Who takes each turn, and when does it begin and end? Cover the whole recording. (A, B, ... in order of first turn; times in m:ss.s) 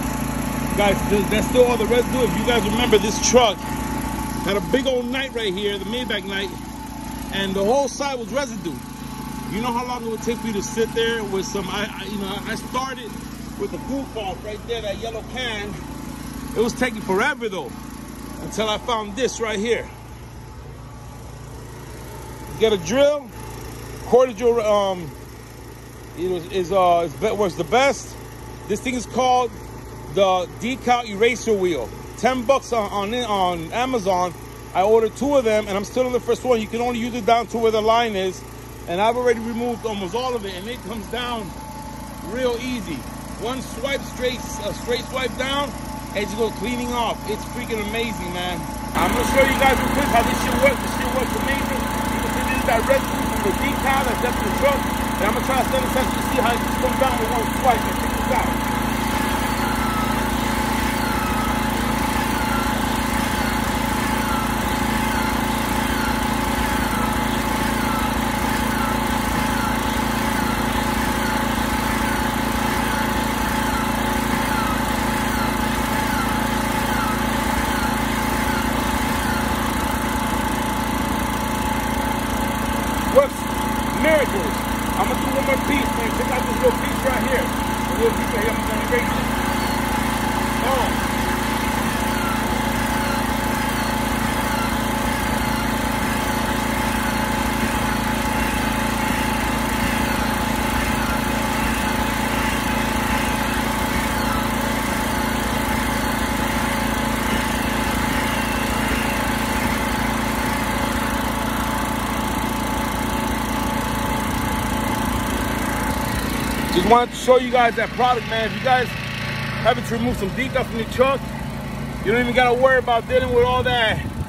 0:00.7-0:03.6 A
0:04.4-0:06.6 A
0:07.3-0:08.8 A
0:09.5-0:15.8 A
0:16.5-0:17.8 A
0:18.4-0:19.9 A
0:22.5-0:23.3 A
0:24.0-0:25.2 A
0:26.1-0:41.5 A
0:42.2-0:58.6 A
1:23.1-1:29.3 A
1:30.6-1:31.0 A
1:56.7-1:59.0 A
1:59.6-2:01.2 A
2:02.0-2:04.0 A